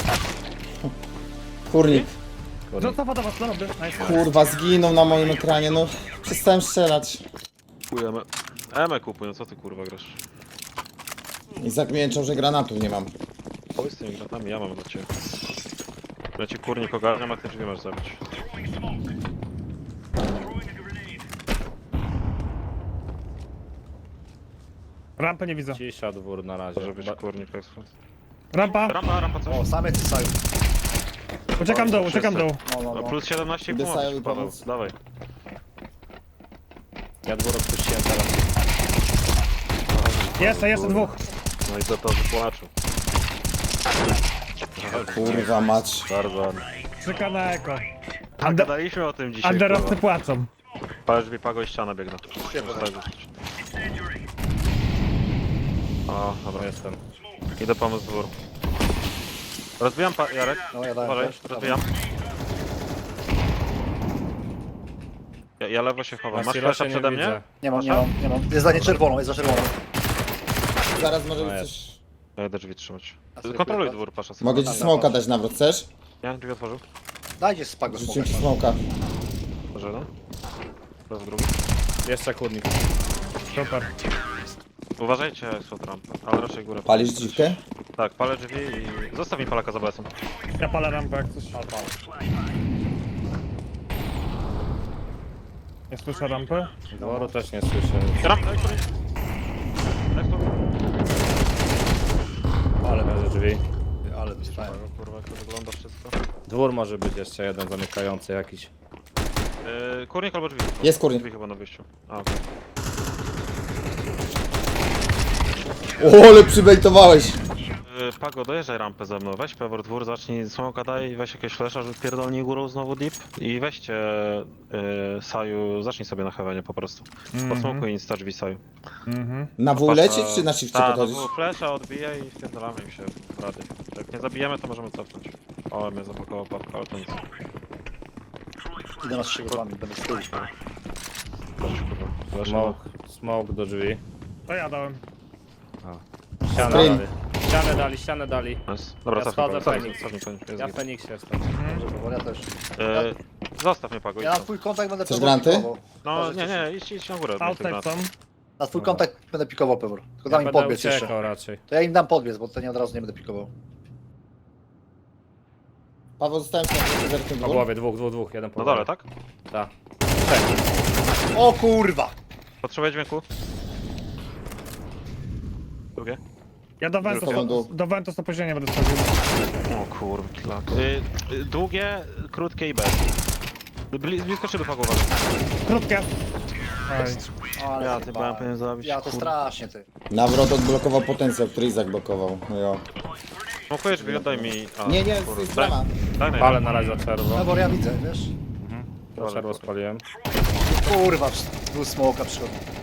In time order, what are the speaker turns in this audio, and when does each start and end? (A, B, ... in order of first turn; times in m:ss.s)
0:01.7-0:02.2 A
0:02.7-0:03.0 B
0:02.8-0:04.2 C
0:04.0-0:07.2 A
0:07.9-0:10.2 D
0:11.6-0:13.1 A
0:13.8-0:15.1 D
0:16.4-0:18.2 D
0:25.2-0:25.8 C
0:25.7-0:27.2 B
0:26.8-0:27.9 D
0:28.5-0:29.0 C
0:28.8-0:29.7 D
0:29.4-0:30.4 E
0:31.6-0:32.6 C
0:31.6-0:34.9 D
0:32.6-0:33.2 E
0:33.7-0:34.6 A
0:37.2-0:38.4 B
0:39.9-0:42.7 D
0:40.4-0:41.2 C
0:44.8-0:45.5 D
0:44.9-0:45.5 B
0:45.0-0:46.1 A
0:46.1-0:46.7 D
0:47.0-0:47.9 C
0:48.4-0:48.7 C
0:48.4-0:50.0 D
0:49.4-0:50.5 C
0:51.1-0:53.3 D
0:52.4-0:53.0 E
0:56.1-0:56.7 D
0:56.5-0:57.0 B
0:57.6-0:58.3 D
0:59.8-1:01.9 D
1:00.7-1:01.8 E
1:05.6-1:08.1 D
1:06.3-1:07.5 B
1:07.6-1:09.7 E
1:10.9-1:12.0 A
1:11.4-1:11.7 B
1:12.4-1:15.2 D
1:13.4-1:14.0 E
1:14.4-1:15.9 A
1:14.6-1:15.2 E
1:16.2-1:16.8 D
1:17.4-1:18.6 E
1:17.9-1:18.8 A
1:19.7-1:20.1 D
1:21.1-1:21.5 D
1:22.0-1:22.8 B
1:23.5-1:23.9 C
1:25.0-1:30.1 D
1:26.8-1:27.6 A
1:30.6-1:32.0 C
1:35.9-1:36.8 C
1:36.9-1:38.3 B
1:37.0-1:37.4 E
1:38.2-1:38.8 D
1:40.1-1:40.6 D
1:42.8-1:43.3 E
1:42.9-1:43.6 B
1:44.0-1:44.8 E
1:44.4-1:46.2 D
1:46.5-1:48.7 B
1:49.6-1:52.4 D
1:50.8-1:51.3 A
1:56.0-1:57.4 A
1:57.8-2:08.6 D
2:07.3-2:07.9 C
2:09.1-2:09.5 C
2:09.6-2:11.3 A
2:09.8-2:17.2 D
2:19.0-2:20.4 E
2:21.6-2:22.8 D
2:22.4-2:24.0 B
2:24.5-2:25.0 C
2:25.8-2:31.7 B
2:26.5-2:27.1 A
2:28.7-2:30.8 D
2:31.5-2:31.8 C
2:31.6-2:33.1 E
2:32.8-2:34.5 D
2:34.2-2:36.7 E
2:35.0-2:35.7 A
2:36.0-2:37.9 D
2:37.4-2:38.1 C
2:38.6-2:41.1 E
2:38.7-2:39.1 B
2:40.3-2:41.6 B
2:41.7-2:43.5 E
2:46.2-2:47.7 A
2:47.4-2:48.9 B
2:48.6-2:49.1 D
2:49.5-2:50.5 B
2:51.3-2:52.1 E
2:52.6-2:53.2 D
2:56.8-2:59.1 C
2:57.0-2:57.5 D
2:57.1-2:57.7 A
2:59.7-3:03.1 D
3:03.9-3:05.1 D
3:05.6-3:06.1 C
3:06.9-3:07.2 C
3:07.6-3:09.9 E
3:07.8-3:09.4 D
3:10.1-3:12.9 A
3:13.7-3:16.8 D
3:13.9-3:15.9 A
3:16.4-3:17.5 B
3:17.3-3:18.3 E
3:18.6-3:20.0 B
3:19.2-3:19.7 D
3:20.6-3:22.6 E